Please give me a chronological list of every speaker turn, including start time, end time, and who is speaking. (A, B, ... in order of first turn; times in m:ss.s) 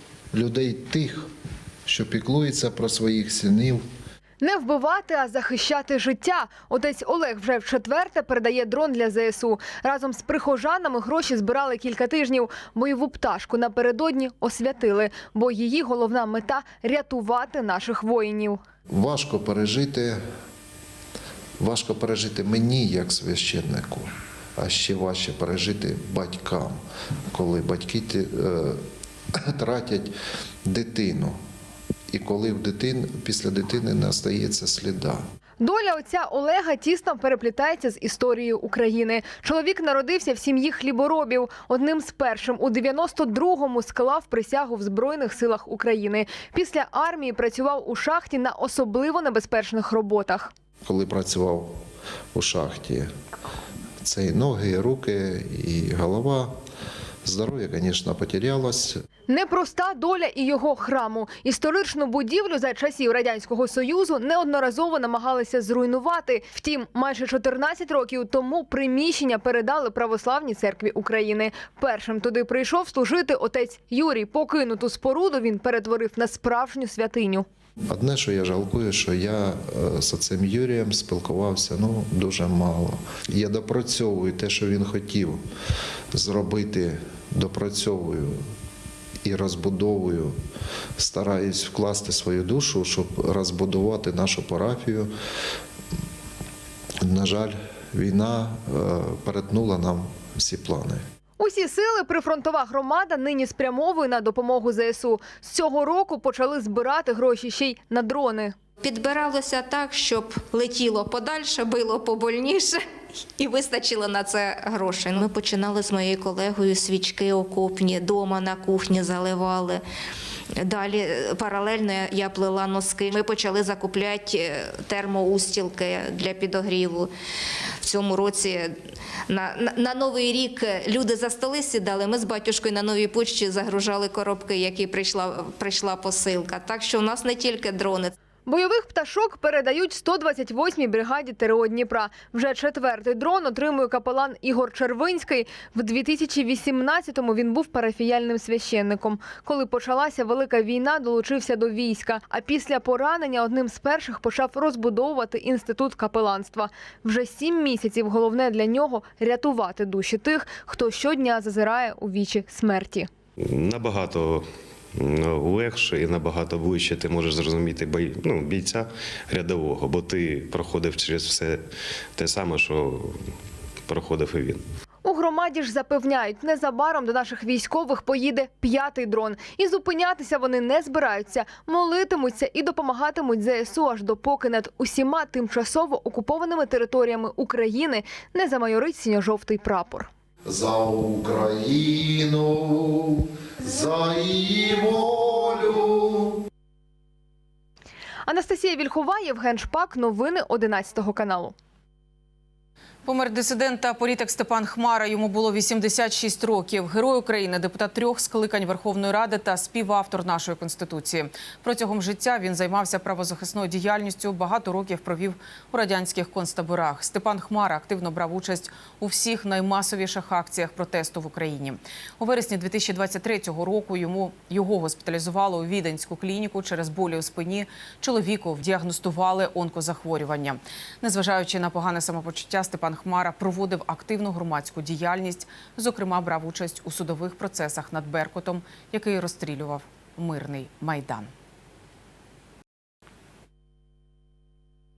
0:00.3-0:01.3 A
0:01.8-0:03.8 A
0:04.4-0:18.6 B
0:18.9-0:20.2 A
0:21.6-0:26.8 A
0:27.3-0:28.8 A
0:29.3-0:30.1 A
0:30.6-0:31.4 A
0:32.1-0:35.2 A
0:35.6-0:50.5 B
0:50.8-0:51.8 A
0:52.3-0:53.1 A
0:54.0-0:56.6 A
0:57.2-0:59.0 A
0:59.3-1:17.4 B
1:17.9-1:25.4 A
1:26.1-1:28.4 A
1:29.2-1:30.4 A
1:31.0-1:35.1 A
1:37.0-1:41.0 A
1:41.4-1:48.6 B
1:48.8-1:52.8 C
1:53.4-1:59.8 C
2:00.6-2:07.1 C
2:07.8-2:08.8 C
2:09.3-2:18.1 C
2:18.4-2:43.1 B
2:43.4-2:51.6 D
2:52.1-2:53.3 D
2:53.9-2:54.6 D
2:55.0-3:10.1 B
3:10.4-3:16.4 A
3:18.3-3:21.5 B
3:23.0-4:01.3 E